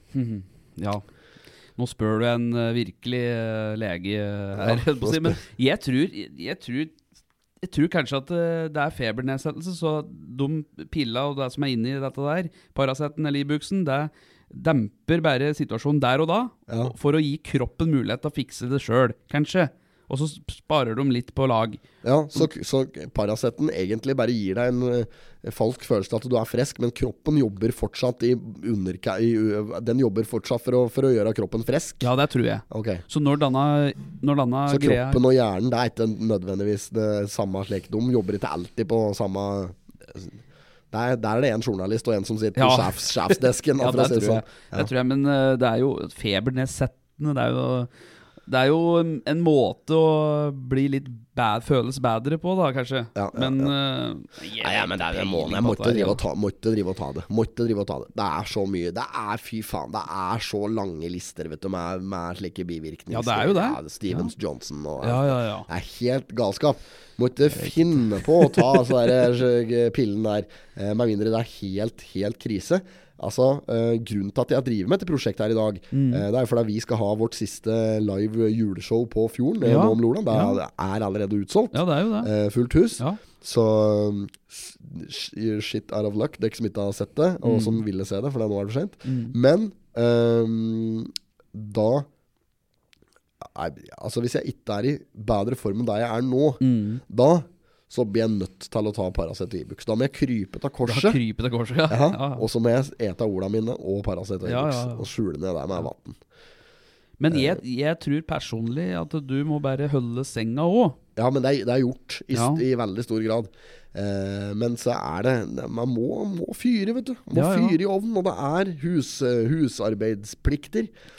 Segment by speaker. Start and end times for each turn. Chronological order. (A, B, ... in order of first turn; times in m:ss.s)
0:00.1-0:01.0 A
0:01.8-0:07.0 A
0:04.6-0:05.4 B
0:07.6-0:21.8 A
0:16.7-0:16.9 B
0:22.0-0:32.1 B
0:32.0-0:35.2 A
0:32.7-0:33.0 B
0:34.7-0:40.4 B
0:40.9-0:44.9 B
0:42.6-0:47.9 A
0:48.4-0:56.2 A
0:53.2-0:53.7 B
0:54.6-1:32.1 B
1:03.1-1:04.3 A
1:05.0-1:05.7 A
1:07.5-1:08.9 A
1:15.9-1:16.2 A
1:19.6-1:20.6 A
1:21.7-1:22.3 A
1:27.4-1:27.8 A
1:29.0-1:29.3 A
1:33.4-1:41.2 B
1:36.6-1:37.0 A
1:40.8-1:42.4 A
1:41.9-1:46.2 B
1:44.4-1:45.0 A
1:47.2-1:51.0 A
1:47.3-1:47.6 B
1:51.2-2:00.9 B
1:52.3-1:52.6 A
1:57.3-1:57.8 A